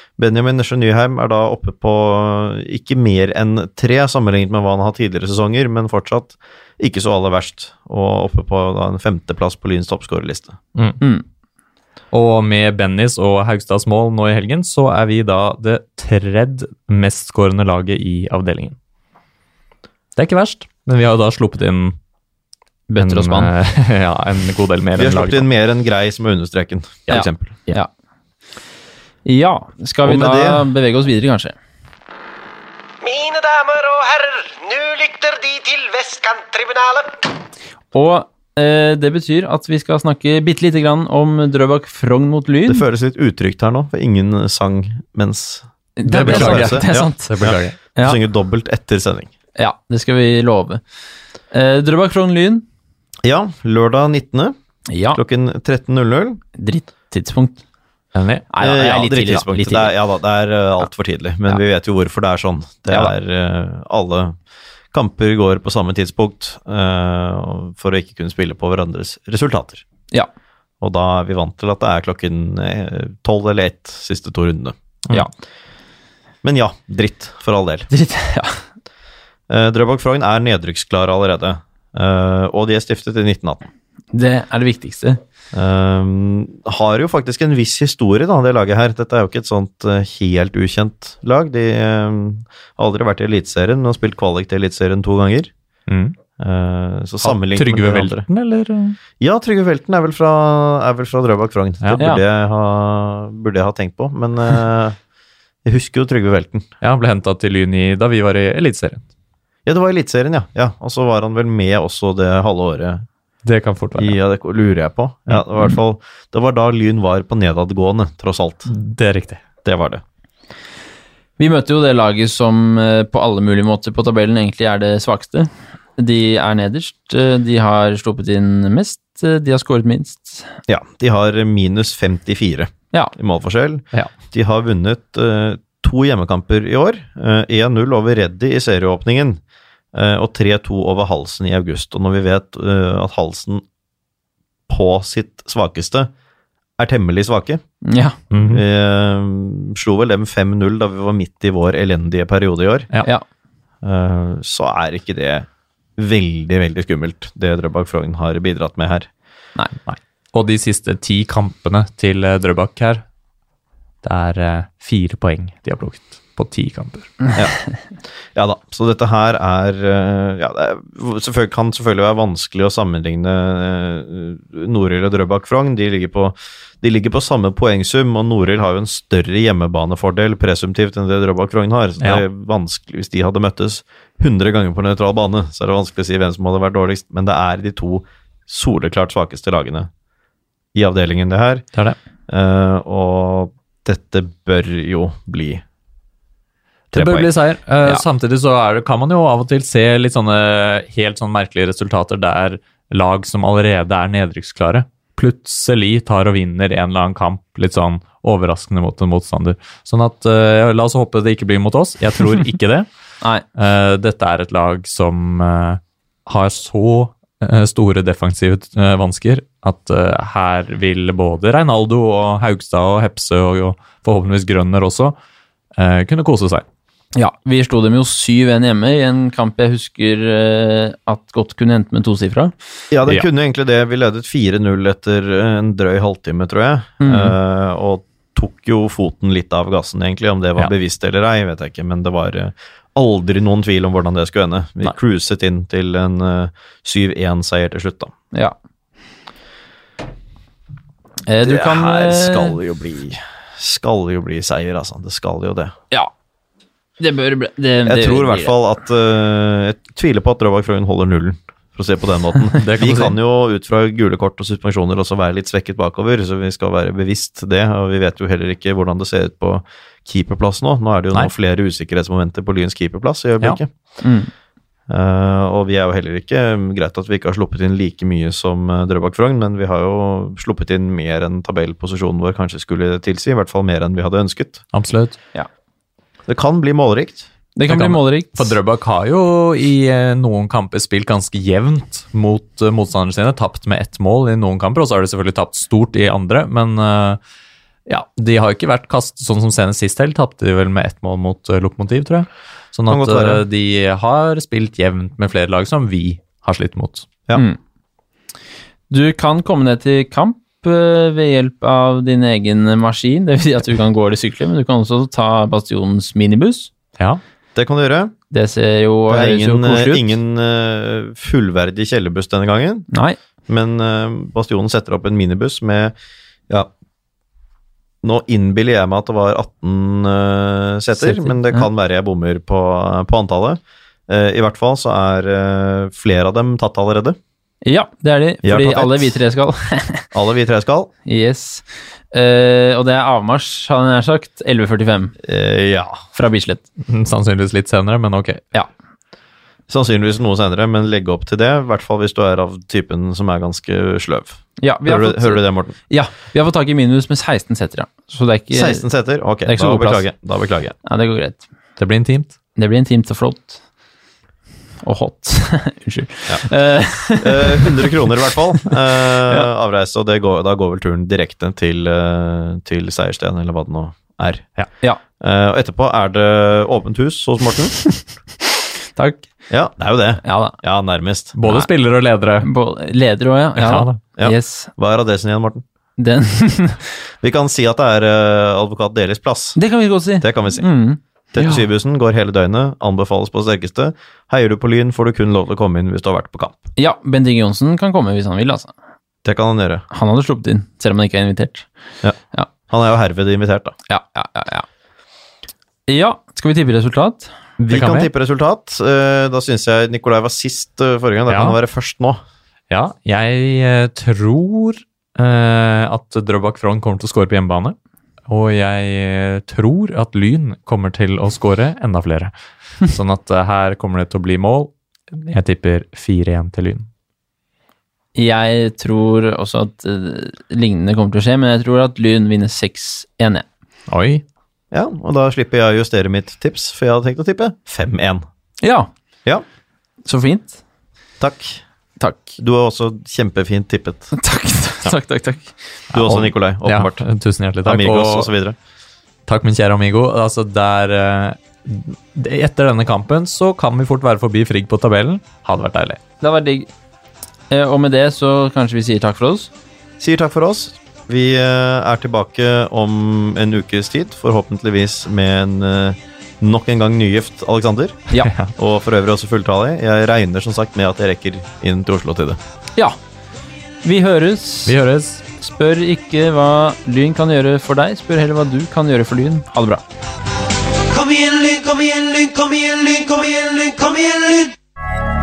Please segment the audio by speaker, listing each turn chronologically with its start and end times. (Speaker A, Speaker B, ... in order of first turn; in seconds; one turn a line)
Speaker A: 0.2-10.6
Speaker B: 10.8-11.0
Speaker C: 11.0-11.2
Speaker B: 12.1-18.8
Speaker B: 20.2-22.0
Speaker C: 22.9-23.5
Speaker B: 23.0-25.5
Speaker A: 25.0-27.6
Speaker B: 27.1-27.8
Speaker C: 27.1-27.9
Speaker C: 29.2-31.6
Speaker A: 30.0-30.7
Speaker D: 33.0-37.2
Speaker C: 37.9-42.8
Speaker A: 42.7-46.9
Speaker C: 46.0-48.2
Speaker B: 46.1-47.8
Speaker A: 48.0-49.3
Speaker C: 49.6-50.8
Speaker C: 51.5-52.6
Speaker A: 53.2-54.5
Speaker C: 54.9-55.2
Speaker A: 55.1-56.4
Speaker C: 56.6-57.6
Speaker B: 58.1-58.5
Speaker C: 58.5-59.9
Speaker A: 58.6-64.4
Speaker A: 64.9-69.8
Speaker A: 70.8-74.8
Speaker A: 76.4-77.9
Speaker C: 77.9-78.6
Speaker A: 79.5-83.7
Speaker C: 84.1-85.2
Speaker A: 85.5-95.5
Speaker B: 95.9-96.2
Speaker A: 96.4-98.2
Speaker B: 97.2-99.0
Speaker A: 99.2-105.0
Speaker A: 105.7-106.7
Speaker B: 106.8-109.0
Speaker A: 109.7-113.1
Speaker B: 113.5-114.2
Speaker A: 114.0-118.7
Speaker B: 118.7-119.4
Speaker A: 119.6-120.0
Speaker C: 121.4-130.5
Speaker A: 130.7-139.4
Speaker A: 139.9-143.6
Speaker A: 144.7-146.1
Speaker A: 146.8-147.6
Speaker C: 147.8-148.2
Speaker B: 148.3-148.6
Speaker A: 148.5-152.9
Speaker A: 153.8-159.1
Speaker B: 159.9-163.0
Speaker B: 164.0-167.3
Speaker A: 168.3-189.9
Speaker A: 190.7-191.7
Speaker A: 192.3-195.6
Speaker A: 196.9-197.3
Speaker B: 196.9-212.9
Speaker B: 213.6-225.2
Speaker B: 225.8-226.7
Speaker C: 227.2-232.5
Speaker A: 232.9-248.1
Speaker C: 237.0-237.3
Speaker C: 251.3-252.6
Speaker A: 251.4-255.8
Speaker C: 257.0-258.6
Speaker A: 257.9-273.7
Speaker B: 262.6-263.2
Speaker C: 274.0-274.3
Speaker A: 274.9-284.6
Speaker B: 284.7-285.2
Speaker A: 286.3-287.3
Speaker C: 287.6-288.5
Speaker B: 287.7-297.2
Speaker B: 297.9-307.1
Speaker A: 302.9-303.4
Speaker C: 308.9-316.7
Speaker A: 317.6-318.1
Speaker C: 318.3-320.2
Speaker A: 319.1-322.9
Speaker C: 322.9-323.2
Speaker A: 323.5-325.9
Speaker A: 328.0-337.2
Speaker C: 331.0-331.7
Speaker C: 337.6-340.1
Speaker A: 338.4-339.2
Speaker A: 340.1-340.9
Speaker C: 341.1-345.1
Speaker A: 345.2-346.0
Speaker C: 346.1-346.6
Speaker B: 346.9-348.4
Speaker A: 349.7-355.8
Speaker C: 354.6-358.9
Speaker A: 358.5-360.8
Speaker C: 359.4-360.1
Speaker C: 360.8-361.4
Speaker B: 361.8-362.4
Speaker C: 362.6-363.6
Speaker C: 364.8-367.9
Speaker A: 366.3-374.5
Speaker A: 375.2-377.8
Speaker C: 377.8-379.3
Speaker A: 379.5-381.4
Speaker C: 380.2-380.6
Speaker B: 381.4-382.5
Speaker C: 382.4-384.7
Speaker B: 383.6-384.0
Speaker A: 384.2-385.6
Speaker C: 386.0-386.9
Speaker A: 387.2-389.6
Speaker C: 389.6-391.6
Speaker A: 390.2-390.7
Speaker A: 391.3-396.6
Speaker C: 396.8-398.7
Speaker A: 399.2-399.9
Speaker C: 399.9-401.7
Speaker A: 402.7-403.8
Speaker C: 403.9-404.7
Speaker C: 405.9-407.3
Speaker A: 407.6-412.2
Speaker B: 407.7-408.1
Speaker B: 411.3-411.6
Speaker B: 412.7-417.8
Speaker B: 418.3-426.9
Speaker C: 428.1-433.5
Speaker B: 433.9-434.2
Speaker A: 434.7-438.2
Speaker C: 438.6-438.9
Speaker C: 440.1-440.6
Speaker A: 441.2-441.6
Speaker C: 442.0-442.4
Speaker A: 442.4-444.1
Speaker C: 444.1-445.6
Speaker A: 445.9-447.0
Speaker B: 445.9-448.3
Speaker A: 447.6-448.6
Speaker B: 449.3-456.0
Speaker C: 456.2-456.7
Speaker C: 457.5-459.5
Speaker A: 460.0-472.4
Speaker C: 473.8-474.8
Speaker B: 474.7-475.2
Speaker C: 475.4-479.8
Speaker D: 480.9-484.6